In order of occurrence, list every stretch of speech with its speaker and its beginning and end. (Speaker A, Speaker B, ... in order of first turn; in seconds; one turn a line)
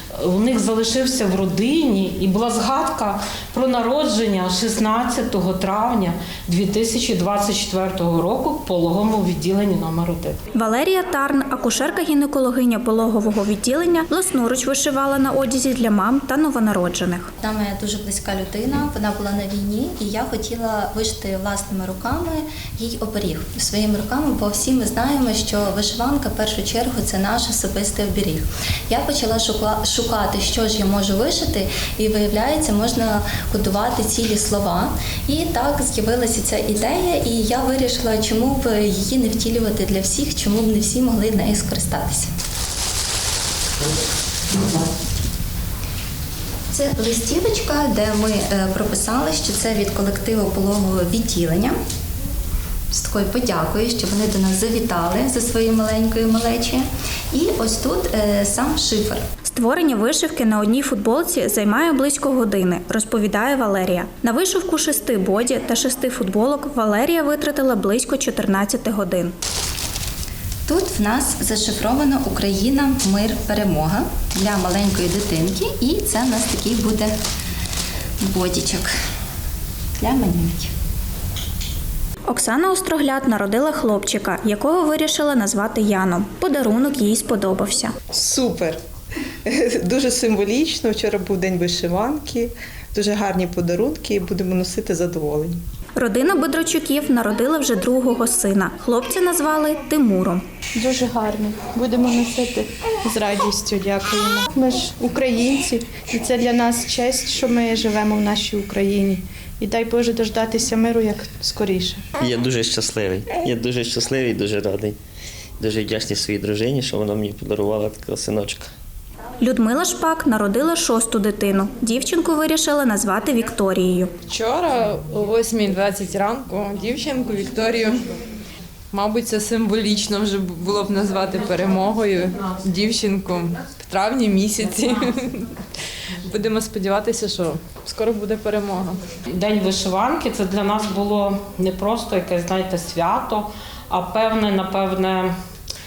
Speaker A: 0.2-10.4
Speaker B: 10.5-17.3
Speaker C: 17.4-42.3
Speaker C: 46.7-51.7
Speaker C: 52.9-59.2
Speaker B: 59.4-69.3
Speaker C: 70.7-77.1
Speaker C: 78.2-78.9
Speaker C: 80.0-80.7
Speaker B: 82.3-87.9
Speaker D: 88.1-88.8
Speaker D: 89.5-95.6
Speaker B: 96.0-100.4
Speaker E: 100.8-112.0
Speaker F: 112.2-115.0
Speaker F: 115.6-118.7
Speaker B: 119.4-124.1
Speaker G: 124.3-128.0
Speaker G: 128.9-135.5
Speaker G: 136.2-139.0
Speaker A: 139.3-145.3